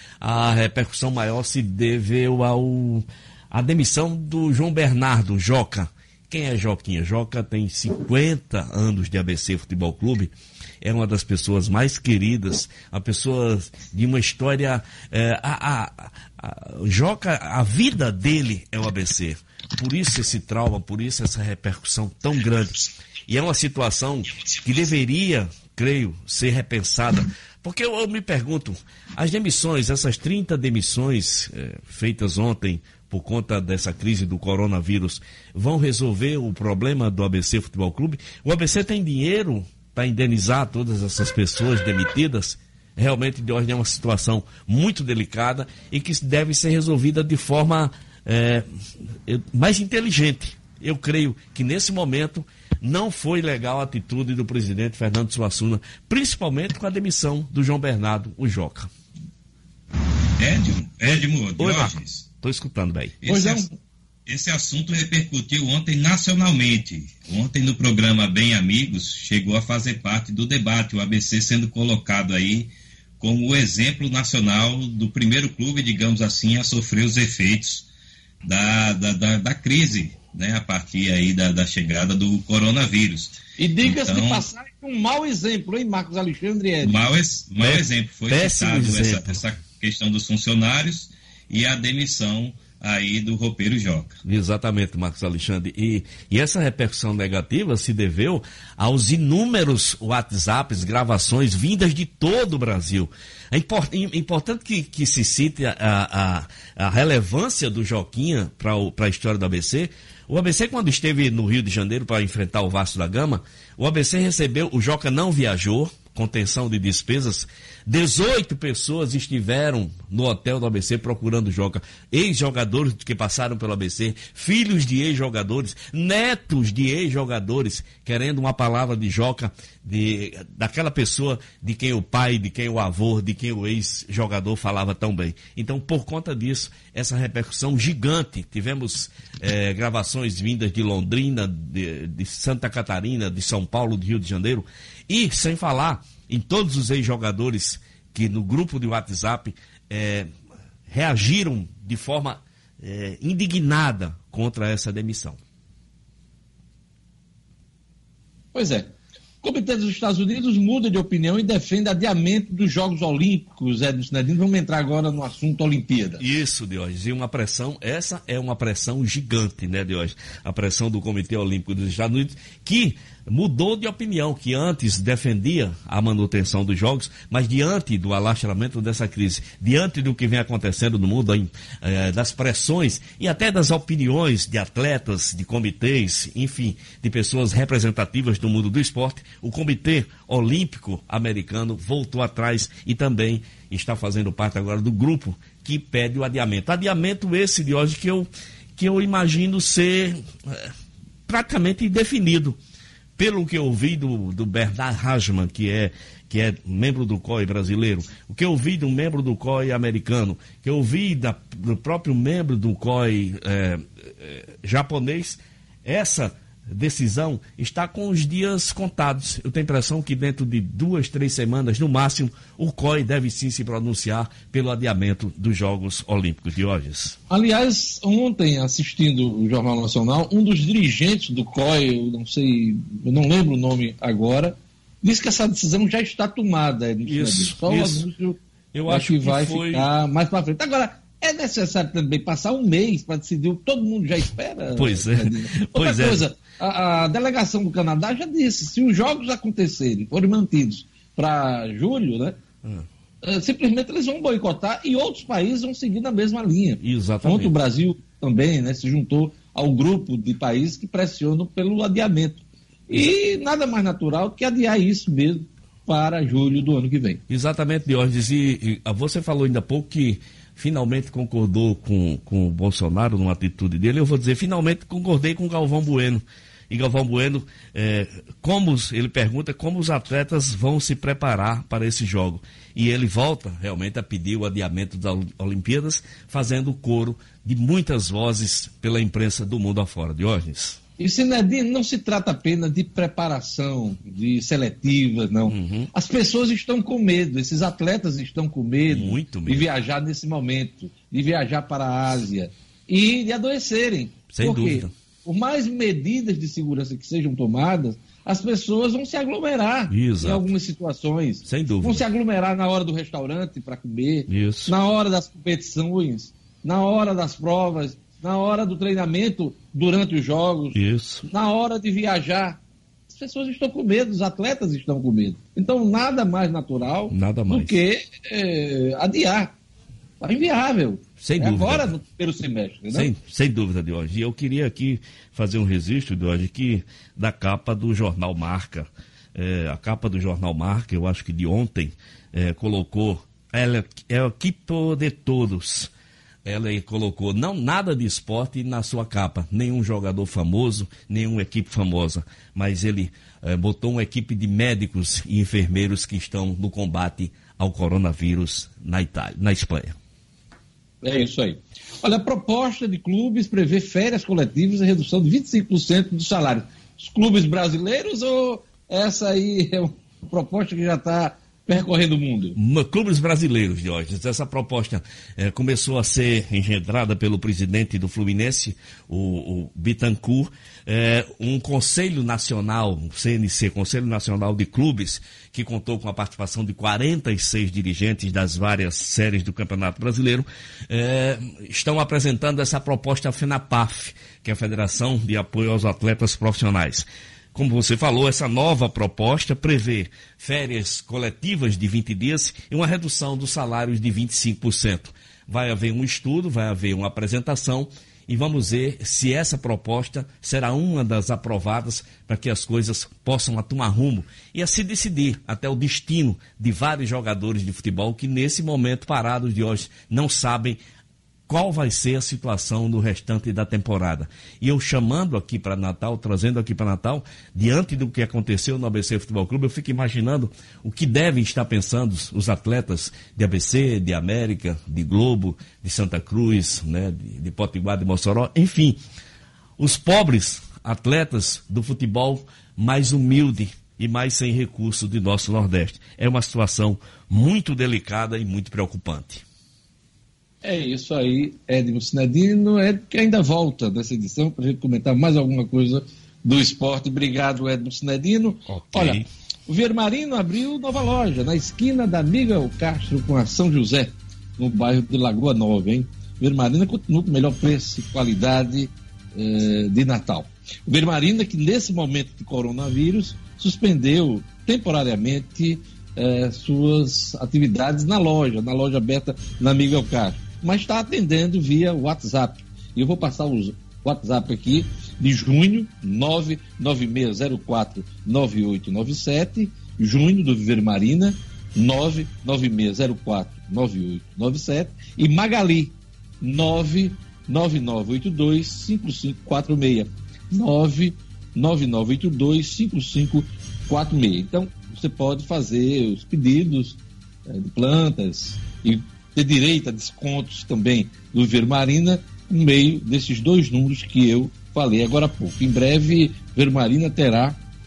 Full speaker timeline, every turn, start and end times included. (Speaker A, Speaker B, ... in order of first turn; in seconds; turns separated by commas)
Speaker A: 0.2-48.6, Speaker A: 49.2-58.9, Speaker B: 60.4-62.2, Speaker A: 61.6-63.2, Speaker B: 63.2-63.7, Speaker C: 63.3-63.7, Speaker B: 64.3-77.8, Speaker B: 78.4-84.5, Speaker C: 83.6-87.0, Speaker B: 86.8-94.2, Speaker A: 87.6-89.4, Speaker A: 94.2-150.3, Speaker A: 150.9-155.4, Speaker C: 158.5-166.2, Speaker A: 166.2-200.7, Speaker A: 201.3-202.6, Speaker A: 203.2-227.2, Speaker C: 227.3-252.4, Speaker A: 237.1-238.1, Speaker A: 238.7-239.9, Speaker A: 244.7-246.2, Speaker C: 253.2-267.2, Speaker A: 256.8-257.5, Speaker A: 267.3-290.8, Speaker C: 291.0-320.8, Speaker A: 295.5-295.9, Speaker A: 298.9-299.7, Speaker A: 304.3-304.9, Speaker A: 309.9-310.5, Speaker A: 311.4-312.0, Speaker A: 314.3-314.7, Speaker A: 320.7-321.2, Speaker C: 321.3-329.6, Speaker A: 327.1-327.8, Speaker C: 330.2-333.1, Speaker A: 331.2-331.9, Speaker A: 332.9-345.9, Speaker A: 346.4-359.9, Speaker C: 361.0-372.6, Speaker A: 372.6-420.8, Speaker A: 421.5-439.0, Speaker A: 439.8-449.4, Speaker C: 450.6-517.6, Speaker A: 458.7-459.2